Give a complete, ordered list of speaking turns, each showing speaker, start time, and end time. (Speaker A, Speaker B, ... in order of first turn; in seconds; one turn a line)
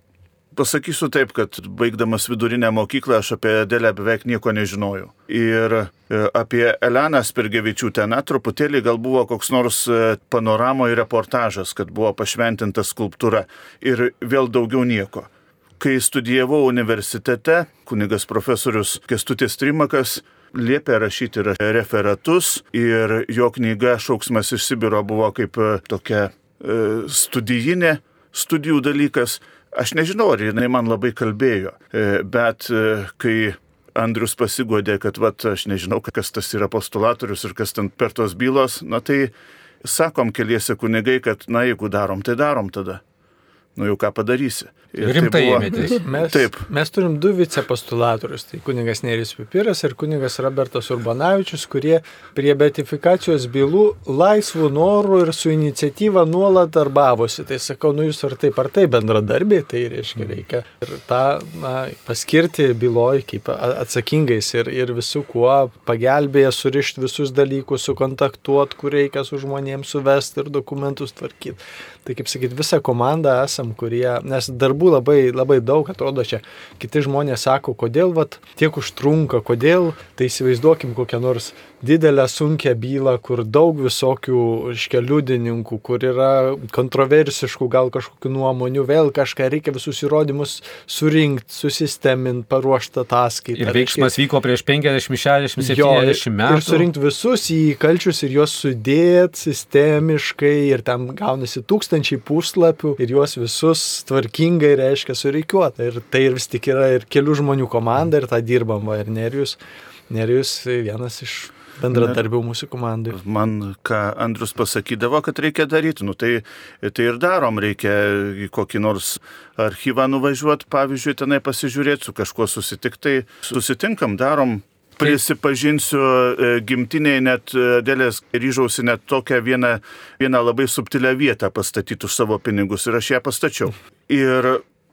Speaker A: 0.5-39.3
Speaker A: 39.8-43.0
Speaker A: 43.8-46.6
Speaker B: 45.0-46.0
Speaker C: 45.8-94.1
Speaker B: 93.6-96.9
Speaker C: 95.6-109.6
Speaker C: 110.1-113.2
Speaker A: 111.9-112.2
Speaker A: 113.1-134.6